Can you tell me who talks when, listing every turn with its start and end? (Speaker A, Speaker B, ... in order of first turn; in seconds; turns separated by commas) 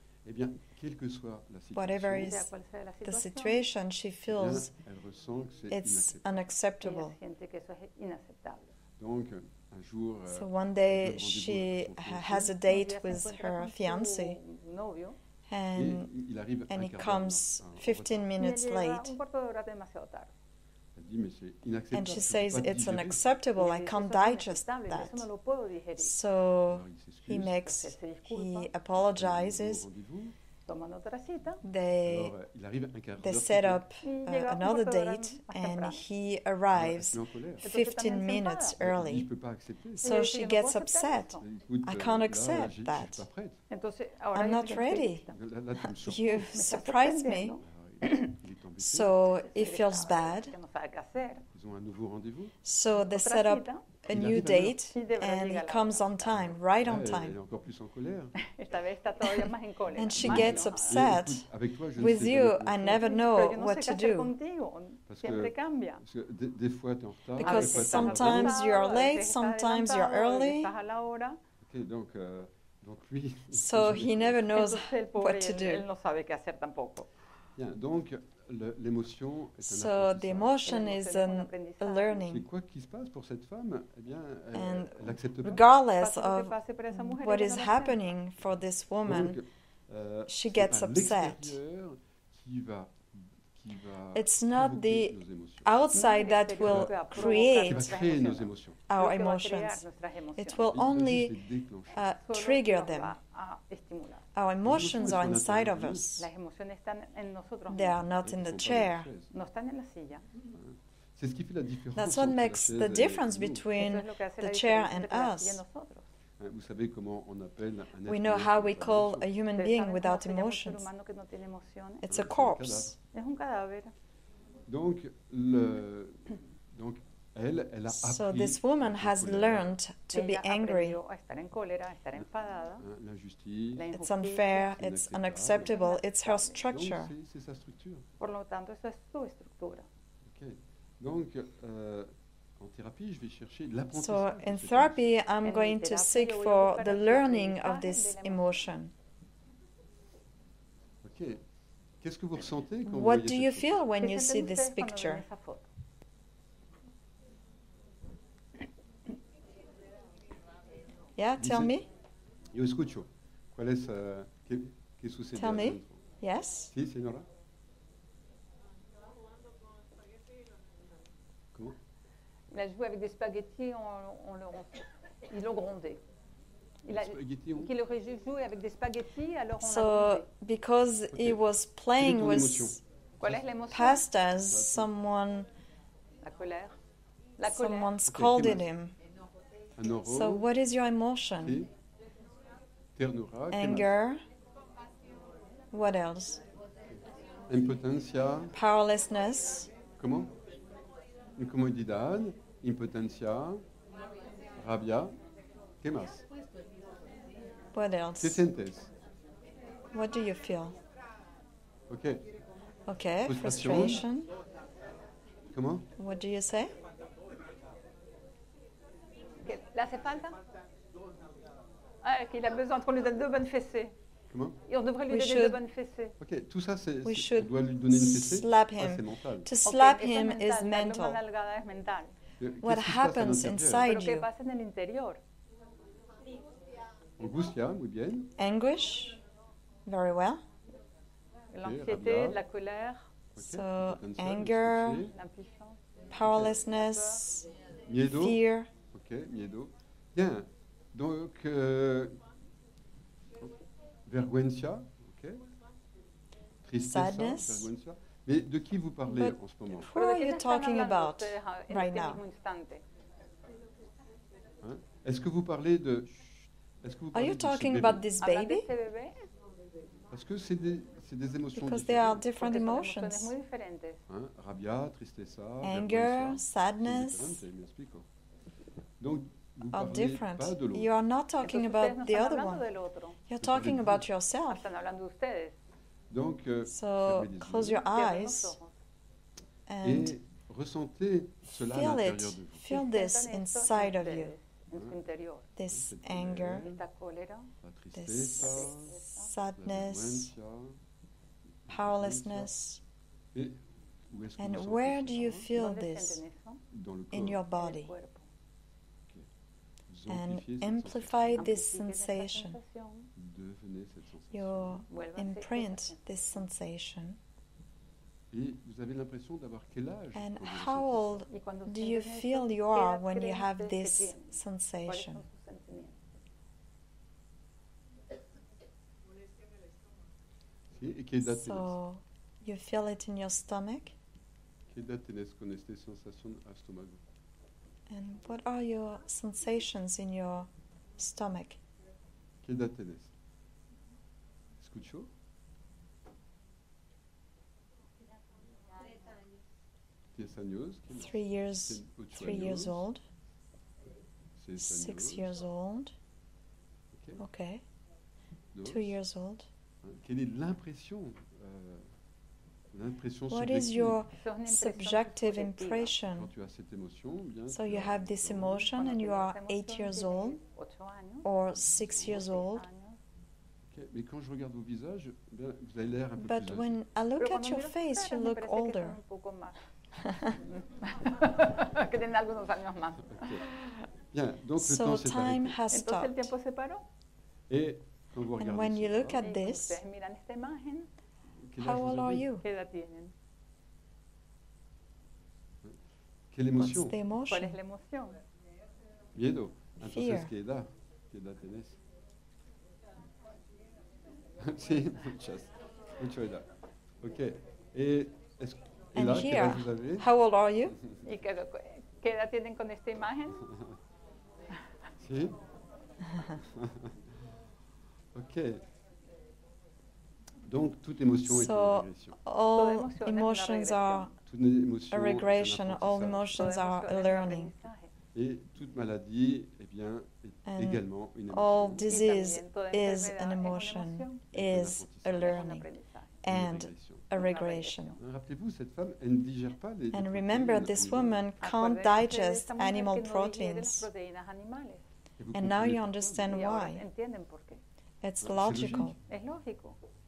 Speaker A: 0.2-2.4, Speaker B: 1.7-2.5, Speaker C: 2.1-3.6, Speaker B: 3.0-4.7, Speaker A: 4.3-6.3, Speaker B: 5.7-7.2, Speaker C: 6.8-8.7, Speaker A: 9.0-12.6, Speaker B: 10.3-14.4, Speaker C: 12.6-15.2, Speaker B: 15.5-16.1, Speaker A: 15.7-18.3, Speaker B: 16.7-19.1, Speaker C: 18.3-20.3, Speaker A: 20.9-23.3, Speaker B: 21.9-25.2, Speaker C: 23.6-26.1, Speaker B: 26.0-29.9, Speaker A: 26.7-27.7, Speaker C: 27.6-28.7, Speaker A: 28.9-30.3, Speaker C: 30.6-31.6, Speaker B: 31.6-32.3, Speaker A: 32.0-33.8, Speaker B: 33.2-39.3, Speaker C: 34.0-36.0, Speaker A: 36.7-37.7, Speaker C: 37.6-38.8, Speaker A: 38.8-40.1, Speaker B: 40.0-43.2, Speaker C: 40.0-41.4, Speaker A: 41.4-43.6, Speaker C: 43.7-45.4, Speaker B: 44.3-45.2, Speaker A: 45.3-46.5, Speaker B: 45.8-47.6, Speaker C: 46.4-48.3, Speaker A: 47.6-49.2, Speaker B: 48.8-50.5, Speaker C: 49.3-51.4, Speaker A: 51.5-52.5, Speaker B: 52.6-57.4, Speaker C: 52.9-56.5, Speaker A: 54.1-54.8, Speaker A: 56.8-58.3, Speaker C: 58.4-61.0, Speaker B: 60.0-64.3, Speaker A: 60.0-63.1, Speaker C: 62.9-66.0, Speaker A: 65.1-68.5, Speaker B: 67.4-70.7, Speaker C: 67.4-71.4, Speaker A: 71.6-74.5, Speaker B: 73.5-75.8, Speaker C: 74.5-77.1, Speaker A: 77.5-80.7, Speaker B: 79.6-82.5, Speaker C: 80.6-82.2, Speaker A: 82.2-85.7, Speaker B: 84.5-89.4, Speaker C: 86.0-88.0, Speaker A: 89.0-95.7, Speaker B: 90.3-91.6, Speaker B: 94.1-97.9, Speaker C: 95.9-100.7, Speaker A: 96.5-98.8, Speaker B: 98.9-99.8, Speaker B: 100.4-101.3, Speaker A: 100.7-102.0, Speaker B: 101.9-103.1, Speaker C: 102.2-104.2, Speaker B: 104.3-106.3, Speaker A: 104.6-106.2, Speaker C: 106.2-108.0, Speaker B: 107.7-109.1, Speaker A: 108.2-109.3, Speaker C: 109.3-110.3, Speaker A: 110.4-113.7, Speaker B: 112.0-115.6, Speaker C: 113.8-116.1, Speaker A: 116.4-119.3, Speaker B: 118.0-120.8, Speaker C: 119.5-122.0, Speaker B: 122.0-122.9, Speaker A: 122.1-123.0, Speaker C: 123.1-123.9, Speaker A: 124.7-129.7, Speaker B: 127.9-131.0, Speaker C: 130.1-132.8, Speaker A: 132.8-133.9, Speaker C: 133.8-134.8, Speaker B: 133.9-137.1, Speaker A: 134.7-135.8, Speaker C: 135.6-136.6, Speaker A: 136.5-138.0, Speaker C: 138.2-139.8, Speaker A: 140.3-145.1, Speaker B: 143.9-148.9, Speaker C: 145.4-148.7, Speaker A: 151.0-151.4, Speaker A: 152.0-153.8, Speaker B: 152.8-155.2, Speaker C: 154.0-155.7, Speaker B: 161.2-161.9, Speaker A: 161.4-161.8, Speaker A: 162.5-166.0, Speaker B: 165.3-166.7, Speaker A: 166.7-167.2, Speaker C: 172.5-176.0, Speaker C: 176.8-180.3, Speaker A: 176.9-177.7, Speaker B: 179.6-182.8, Speaker A: 181.1-181.4, Speaker A: 182.0-183.4, Speaker C: 183.2-184.1, Speaker B: 183.7-185.5, Speaker A: 184.5-184.9, Speaker C: 186.2-186.8, Speaker C: 187.4-187.9, Speaker B: 187.4-188.9, Speaker A: 188.1-188.7, Speaker A: 189.8-190.5, Speaker B: 190.0-191.6, Speaker A: 191.4-191.7, Speaker A: 193.0-193.9, Speaker B: 193.5-194.2, Speaker B: 195.7-196.4, Speaker A: 197.5-198.5, Speaker B: 198.5-199.7, Speaker A: 200.0-200.3, Speaker A: 201.4-203.6, Speaker A: 204.6-205.1, Speaker A: 205.8-206.2, Speaker B: 207.7-208.4, Speaker A: 208.2-208.9, Speaker B: 209.9-210.8, Speaker A: 211.9-212.2, Speaker B: 212.9-214.3, Speaker A: 213.2-214.0, Speaker A: 215.5-215.9, Speaker B: 216.0-216.7, Speaker C: 219.4-220.4, Speaker C: 222.0-223.9, Speaker A: 224.3-224.6, Speaker C: 224.7-226.2, Speaker B: 225.1-225.6, Speaker A: 226.2-229.5, Speaker B: 227.0-231.2, Speaker C: 229.6-232.1, Speaker A: 232.4-233.9, Speaker B: 232.6-234.3, Speaker C: 233.8-235.2, Speaker A: 237.2-238.3, Speaker B: 238.4-239.2, Speaker B: 239.8-240.4, Speaker C: 241.5-243.1, Speaker A: 241.6-242.4, Speaker A: 243.3-245.1, Speaker B: 243.4-245.1, Speaker C: 245.1-245.8, Speaker B: 246.1-247.5, Speaker A: 246.2-246.6, Speaker C: 246.6-247.2, Speaker A: 247.8-248.4, Speaker B: 248.1-248.7, Speaker A: 248.9-252.2, Speaker A: 254.1-255.4, Speaker A: 256.6-259.9, Speaker B: 256.8-257.7, Speaker B: 259.1-262.2, Speaker C: 259.9-262.8, Speaker A: 264.6-268.1, Speaker B: 267.1-268.7, Speaker C: 268.2-269.3, Speaker A: 270.1-272.3, Speaker B: 271.5-273.3, Speaker C: 272.4-274.0, Speaker A: 274.1-278.0, Speaker B: 275.6-277.4, Speaker A: 279.0-280.9, Speaker B: 279.7-282.6, Speaker C: 281.4-283.2, Speaker B: 283.3-284.7, Speaker A: 283.4-284.1, Speaker C: 284.5-285.5, Speaker A: 286.1-287.9, Speaker B: 286.7-288.5, Speaker C: 287.9-288.7, Speaker B: 289.7-290.1, Speaker A: 289.8-292.7, Speaker B: 291.5-294.3, Speaker C: 292.7-295.5, Speaker B: 295.6-296.7, Speaker A: 295.7-296.8, Speaker C: 296.6-297.5, Speaker A: 297.6-299.0, Speaker B: 297.9-300.3, Speaker C: 298.4-299.3, Speaker A: 299.6-300.7, Speaker A: 301.7-302.5, Speaker B: 301.7-302.8, Speaker A: 304.1-305.6, Speaker B: 304.4-306.2, Speaker C: 305.5-306.6, Speaker A: 306.7-307.4, Speaker B: 307.1-307.9, Speaker C: 307.5-308.3, Speaker A: 309.9-311.5, Speaker B: 310.1-312.6, Speaker C: 311.4-313.1, Speaker A: 313.1-314.8, Speaker B: 314.3-317.2, Speaker C: 314.9-316.4, Speaker A: 318.3-321.3, Speaker B: 320.1-325.2, Speaker C: 321.3-324.3, Speaker C: 324.9-326.0, Speaker A: 330.8-331.8, Speaker B: 331.2-333.9, Speaker A: 334.7-337.0, Speaker B: 337.9-341.6, Speaker A: 342.4-343.1, Speaker A: 344.6-345.1, Speaker A: 350.1-352.9, Speaker B: 350.9-353.0, Speaker A: 354.4-355.4, Speaker B: 354.6-355.9, Speaker A: 356.9-357.2, Speaker B: 357.2-357.6, Speaker A: 358.5-359.0, Speaker B: 358.6-359.5, Speaker A: 359.8-361.9, Speaker A: 362.7-364.0, Speaker B: 363.3-366.3, Speaker C: 364.2-366.0, Speaker A: 366.1-368.7, Speaker B: 367.5-370.4, Speaker C: 368.7-371.3, Speaker B: 371.2-372.6, Speaker A: 371.5-372.3, Speaker C: 372.1-373.0, Speaker A: 373.7-376.8, Speaker B: 376.2-379.0, Speaker C: 377.2-379.6, Speaker C: 380.2-383.6, Speaker A: 383.1-383.5, Speaker A: 384.1-385.6, Speaker B: 384.6-386.3, Speaker C: 385.7-386.8, Speaker A: 387.5-389.2, Speaker B: 388.4-389.8, Speaker C: 389.2-390.9, Speaker A: 391.5-392.3, Speaker B: 391.6-392.4, Speaker C: 392.4-393.1, Speaker A: 396.3-396.9, Speaker B: 396.6-397.6, Speaker C: 397.3-398.2, Speaker A: 399.1-401.8, Speaker B: 399.8-400.3, Speaker A: 404.4-406.4, Speaker A: 407.0-410.1, Speaker B: 408.9-410.8, Speaker C: 411.0-413.5, Speaker A: 415.0-415.4, Speaker A: 416.2-416.9, Speaker A: 418.1-418.6, Speaker A: 420.4-422.2, Speaker B: 421.3-424.1, Speaker C: 422.5-424.1, Speaker A: 424.2-426.6, Speaker B: 424.9-427.5, Speaker C: 426.4-427.9, Speaker A: 428.1-432.0, Speaker B: 430.4-435.7, Speaker C: 431.9-434.2, Speaker A: 434.3-435.4, Speaker C: 435.2-436.1, Speaker B: 436.2-438.0, Speaker A: 436.3-437.1, Speaker C: 437.1-438.0, Speaker A: 438.0-441.2, Speaker B: 439.9-443.9, Speaker C: 441.4-444.8, Speaker A: 445.2-446.4, Speaker B: 445.3-446.8, Speaker C: 446.3-447.6, Speaker B: 448.0-449.0, Speaker A: 448.2-449.0, Speaker C: 449.1-449.8